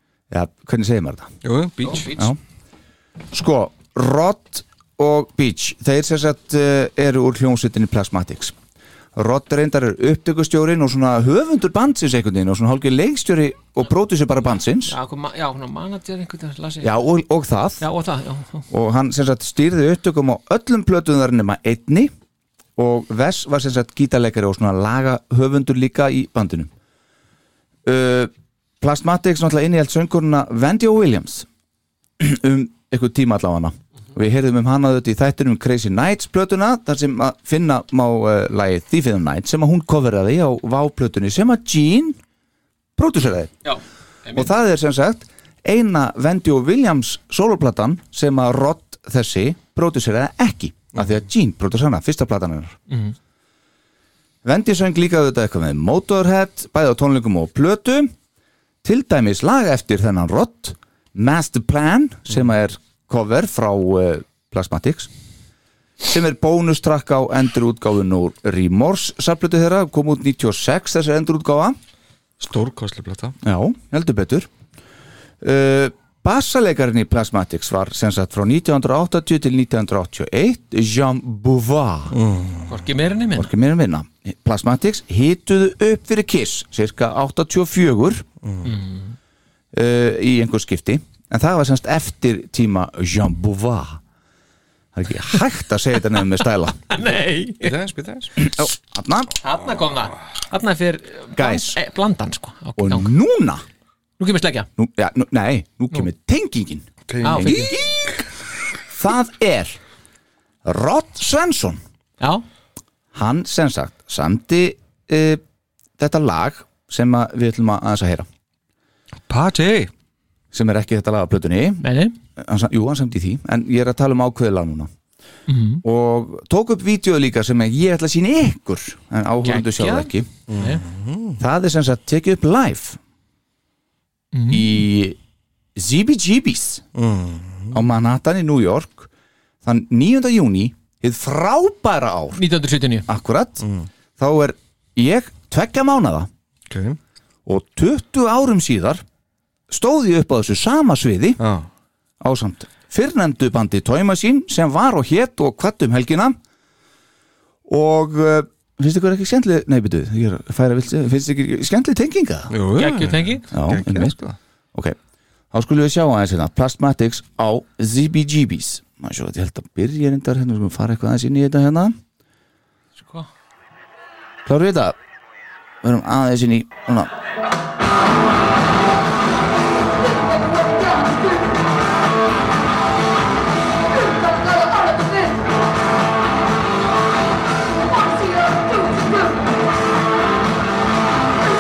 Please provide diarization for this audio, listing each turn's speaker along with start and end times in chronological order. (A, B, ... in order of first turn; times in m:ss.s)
0:00.3-0:01.3 A
0:01.4-0:02.1 B
0:01.8-0:02.3 C
0:03.3-0:08.6 A
0:09.2-0:14.9 A
0:14.9-0:17.0 C
0:16.8-0:17.8 A
0:17.8-0:18.7 C
0:18.7-0:22.1 A
0:22.8-0:26.7 A
0:27.8-0:31.5 A
0:32.2-0:42.2 A
0:43.0-0:43.6 A
0:43.6-0:44.5 C
0:44.4-0:52.8 A
0:52.9-0:53.2 C
0:54.4-0:58.1 A
0:58.8-1:05.1 A
1:06.0-1:11.8 A
1:12.4-1:13.4 B
1:13.4-1:14.5 A
1:15.4-1:22.2 A
1:22.1-1:22.7 B
1:22.7-1:23.5 C
1:23.4-1:28.3 A
1:28.6-1:29.1 C
1:29.7-1:34.0 A
1:35.0-1:36.8 A
1:36.9-1:37.7 C
1:37.6-1:38.3 B
1:38.4-1:39.3 A
1:39.4-1:43.1 C
1:41.4-1:41.8 A
1:42.8-1:43.6 A
1:44.2-1:44.7 C
1:44.8-1:48.0 A
1:47.1-1:48.1 B
1:47.2-1:47.7 C
1:48.9-1:49.8 A
1:50.6-1:51.8 A
1:53.1-1:55.4 A
1:56.0-1:58.3 A
1:59.3-1:59.9 B
2:00.5-2:01.8 A
2:01.8-2:02.2 C
2:02.4-2:04.9 A
2:05.5-2:05.8 C
2:05.8-2:10.3 A
2:09.4-2:10.8 C
2:10.5-2:11.4 B
2:11.4-2:13.0 A
2:14.3-2:14.8 C
2:14.5-2:15.2 A
2:15.8-2:16.8 A
2:17.0-2:17.8 B
2:17.7-2:19.1 A
2:19.6-2:22.4 A
2:22.4-2:23.1 C
2:23.1-2:23.6 A
2:23.6-2:23.9 B
2:24.2-2:26.3 A
2:26.7-2:27.0 B
2:27.5-2:29.0 A
2:29.7-2:31.4 A
2:31.4-2:31.7 B
2:32.2-2:36.4 A
2:37.7-2:42.5 A
2:42.5-2:44.4 B
2:42.8-2:43.5 C
2:43.5-2:44.2 A
2:45.5-2:52.0 A
2:53.0-2:53.3 C
2:54.5-2:55.0 A
2:55.8-2:57.1 A